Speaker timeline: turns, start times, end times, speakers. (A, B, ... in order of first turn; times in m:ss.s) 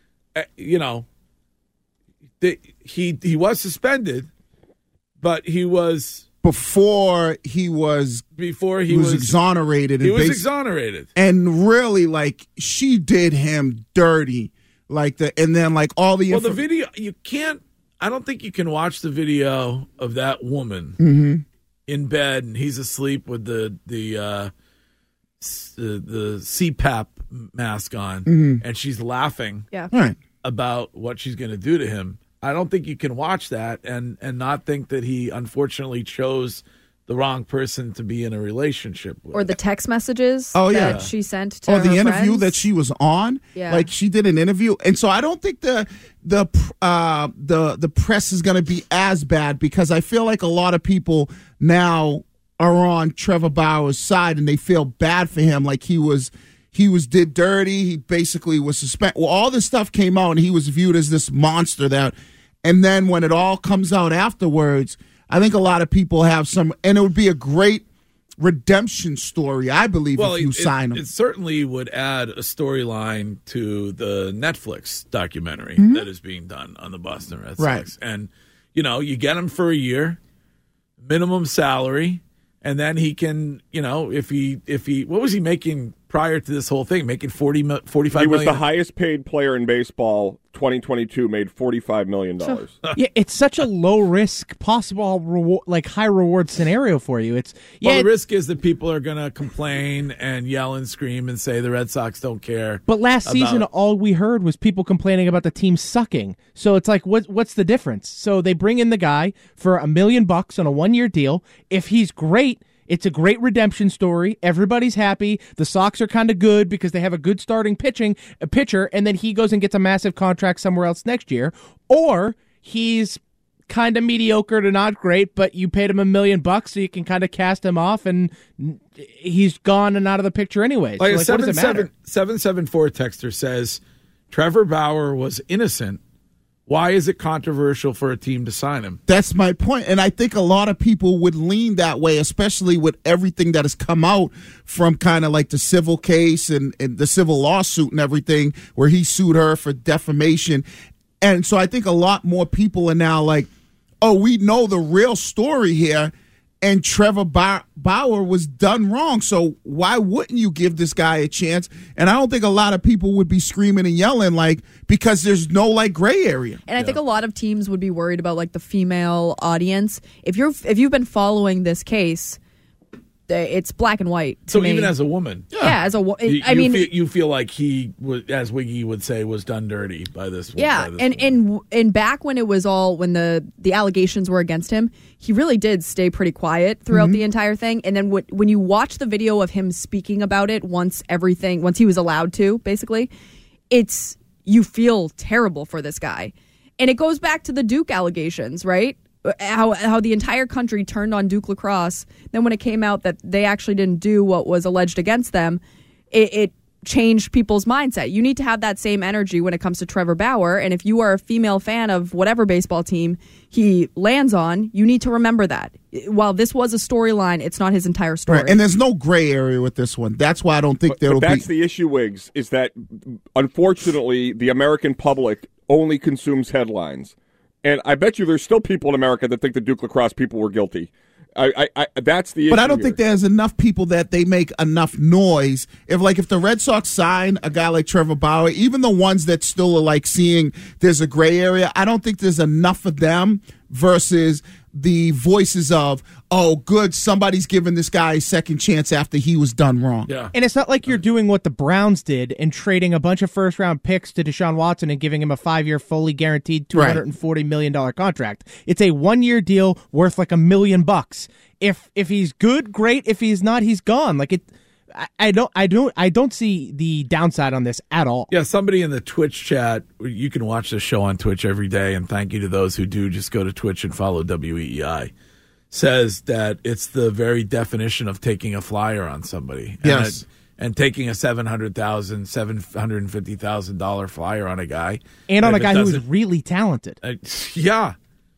0:00.4-0:01.1 A
0:02.4-0:04.3 A
0:05.2-0:06.2 A
0:06.4-0:08.2 B
0:08.4-0:09.4 A
0:08.9-0:10.4 B
0:10.0-0:11.1 A
0:11.2-0:16.6 B
0:16.3-0:21.0 A
0:21.0-0:21.4 B
0:21.9-0:24.5 A
0:25.4-0:29.7 A
0:28.3-0:28.6 B
0:30.4-0:39.6 A
0:39.3-0:42.6 C
0:40.5-0:41.1 B
0:40.7-0:41.1 A
0:41.7-1:07.8 B
0:43.6-0:43.9 C
1:08.4-1:11.0 B
1:10.2-1:20.2 A
1:15.8-1:16.1 B
1:17.6-1:17.9 B
1:21.0-1:28.6 A
1:28.1-1:32.8 D
1:33.0-1:38.1 E
1:37.8-1:43.6 A
1:42.9-2:11.9 E
2:11.0-2:16.0 A
2:16.7-2:19.0 A
2:19.1-2:30.6 B
2:31.2-2:33.5 B
2:34.0-2:46.6 B
2:46.7-2:52.4 C
2:53.3-2:54.9 C
2:54.5-2:55.5 A
2:55.5-2:55.8 B
2:55.6-2:56.9 C
2:56.2-3:01.4 A
3:00.6-3:13.1 C
3:06.9-3:07.2 B
3:13.7-3:38.6 C
3:38.3-3:41.4 B
3:40.9-3:53.0 D
3:52.5-4:10.1 B
4:10.1-4:10.3 A
4:10.3-4:28.3 E
4:16.7-4:17.0 B
4:28.3-4:35.1 A
4:35.7-4:46.0 A
4:39.8-4:40.2 B
4:45.3-4:47.0 E
4:47.0-4:48.0 A